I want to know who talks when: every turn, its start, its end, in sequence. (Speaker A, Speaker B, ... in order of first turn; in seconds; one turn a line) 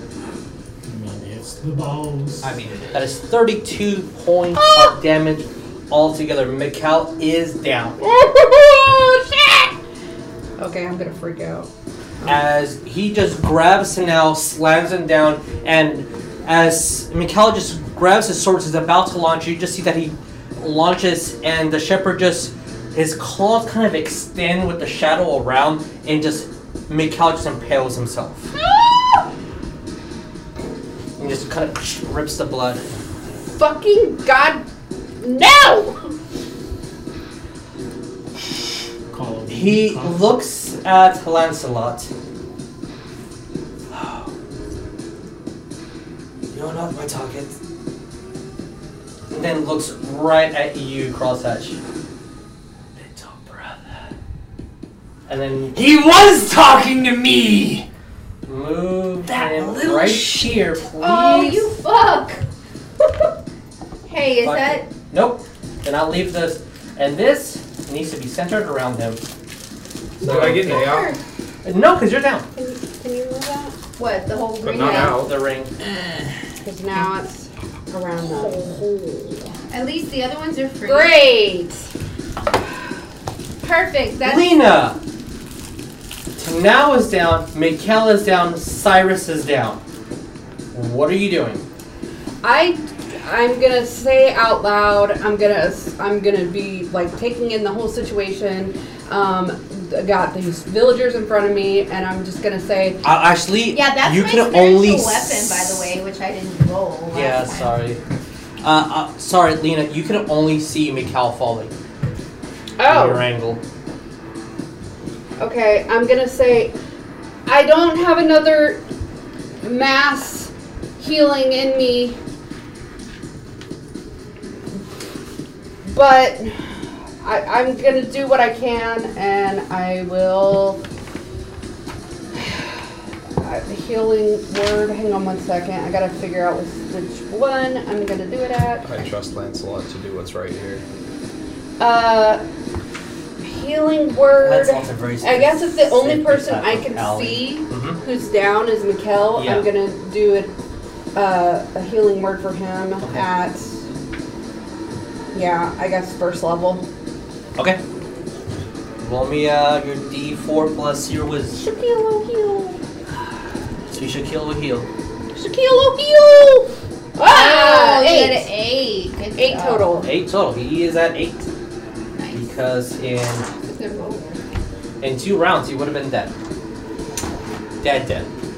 Speaker A: 0.9-2.5
Speaker B: 2.4-8.0
Speaker C: 4.5-5.0
Speaker C: 8.0-9.8
Speaker C: 10.6-11.7
Speaker B: 12.3-28.5
Speaker C: 28.6-29.3
Speaker B: 31.2-32.8
Speaker C: 33.5-34.6
Speaker C: 35.2-36.0
Speaker A: 39.1-40.4
Speaker B: 39.5-42.1
Speaker B: 43.9-44.3
Speaker B: 46.5-47.6
Speaker B: 49.3-51.8
Speaker B: 53.0-53.8
Speaker B: 55.3-55.8
Speaker D: 55.7-57.9
Speaker B: 58.5-61.7
Speaker D: 59.2-60.9
Speaker E: 61.0-62.4
Speaker E: 64.1-64.9
Speaker B: 64.4-69.2
Speaker F: 70.2-71.1
Speaker B: 70.2-70.9
Speaker E: 70.2-71.2
Speaker B: 71.7-72.5
Speaker C: 72.5-73.7
Speaker E: 74.0-75.3
Speaker F: 74.6-75.3
Speaker B: 74.7-75.7
Speaker C: 76.6-78.7
Speaker E: 78.2-81.3
Speaker C: 80.8-81.8
Speaker E: 83.6-84.5
Speaker B: 84.2-85.0
Speaker B: 86.4-89.8
Speaker B: 90.7-91.7
Speaker C: 92.4-103.0
Speaker B: 103.0-105.8
Speaker E: 103.7-107.8
Speaker B: 107.1-108.0
Speaker B: 108.6-111.7
Speaker C: 112.8-113.3
Speaker B: 112.8-113.6
Speaker C: 115.4-116.7
Speaker C: 117.5-118.8
Speaker C: 119.6-122.2
Speaker C: 125.8-126.6
Speaker C: 127.2-130.8
Speaker C: 132.3-132.7
Speaker C: 133.4-139.0
Speaker F: 138.8-140.8
Speaker C: 141.8-142.4
Speaker C: 143.4-150.5
Speaker B: 144.4-148.0
Speaker B: 149.3-149.7
Speaker C: 151.2-153.7
Speaker C: 155.3-156.8
Speaker B: 159.0-161.6
Speaker C: 161.6-162.8
Speaker B: 163.9-164.9
Speaker C: 165.3-168.5
Speaker E: 167.2-170.0
Speaker C: 169.4-170.1
Speaker B: 170.0-171.5
Speaker E: 172.2-172.5
Speaker B: 172.3-173.5
Speaker E: 173.6-174.4
Speaker B: 175.0-176.3
Speaker B: 177.8-178.3